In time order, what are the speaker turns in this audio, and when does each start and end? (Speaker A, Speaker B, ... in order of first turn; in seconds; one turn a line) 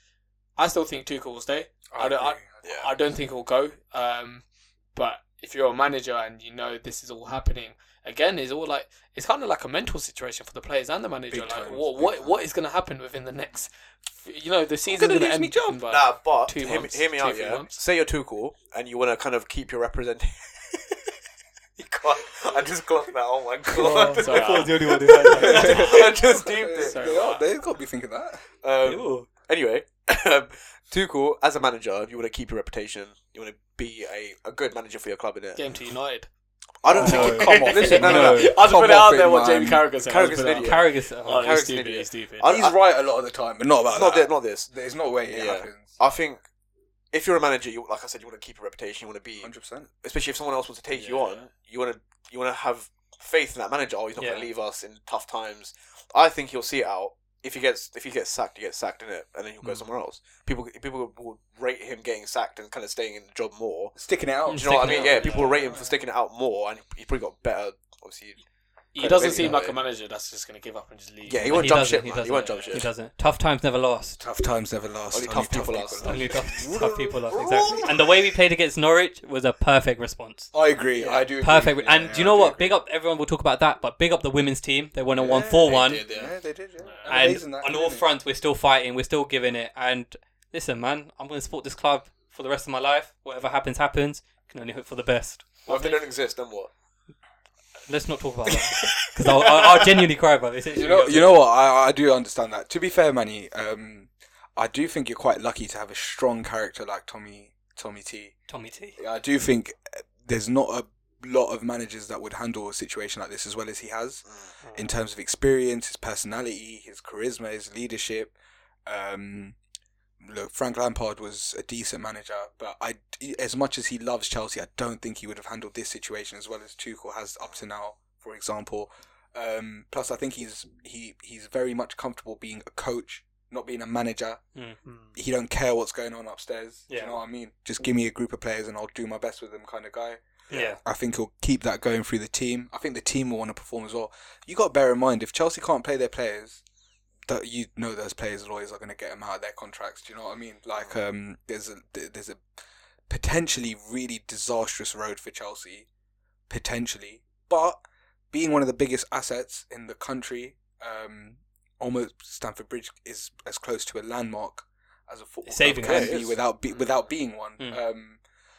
Speaker A: 0.6-17.7
Speaker B: 1.9-2.6
Speaker C: 2.6-2.9
Speaker B: 11.3-12.4
Speaker B: 14.8-15.9
Speaker C: 15.9-21.1
Speaker C: 21.8-27.4
Speaker A: 23.8-27.4
Speaker B: 23.8-24.2
Speaker D: 24.2-26.0
Speaker B: 25.3-28.4
Speaker C: 28.6-35.7
Speaker D: 28.8-29.3
Speaker A: 35.5-36.3
Speaker C: 36.8-38.4
Speaker A: 36.9-42.5
Speaker D: 36.9-38.6
Speaker B: 36.9-39.9
Speaker C: 40.0-42.8
Speaker D: 40.6-41.5
Speaker B: 42.4-45.9
Speaker C: 43.9-44.7
Speaker C: 45.3-46.4
Speaker C: 47.1-64.0
Speaker B: 49.4-49.9
Speaker A: 50.9-51.4
Speaker D: 54.2-54.5
Speaker B: 64.0-65.8
Speaker D: 64.5-65.3
Speaker C: 64.5-68.4
Speaker A: 64.8-65.9
Speaker A: 68.9-72.9
Speaker C: 69.0-69.8
Speaker B: 69.0-69.6
Speaker C: 71.2-72.8
Speaker D: 71.5-74.2
Speaker B: 74.2-77.9
Speaker C: 75.1-76.4
Speaker D: 76.0-80.5
Speaker C: 77.3-77.9
Speaker B: 80.5-82.8
Speaker C: 81.0-81.3
Speaker D: 81.4-86.0
Speaker B: 85.2-88.0
Speaker C: 85.6-86.3
Speaker A: 86.8-87.2
Speaker D: 87.1-95.9
Speaker C: 95.7-96.7
Speaker A: 95.7-95.9
Speaker D: 97.9-101.4
Speaker C: 98.7-100.0
Speaker B: 100.7-108.3
Speaker D: 108.5-109.0
Speaker B: 109.0-118.3
Speaker C: 114.3-114.5
Speaker A: 114.6-114.9
Speaker B: 118.8-119.6
Speaker B: 120.2-134.4
Speaker A: 134.8-135.1
Speaker B: 135.1-140.2
Speaker D: 136.9-137.2
Speaker D: 140.5-140.8
Speaker B: 140.7-146.6
Speaker B: 147.3-152.4
Speaker B: 153.1-155.9
Speaker B: 156.5-157.8
Speaker B: 158.3-168.2
Speaker D: 165.4-166.2
Speaker C: 165.8-166.4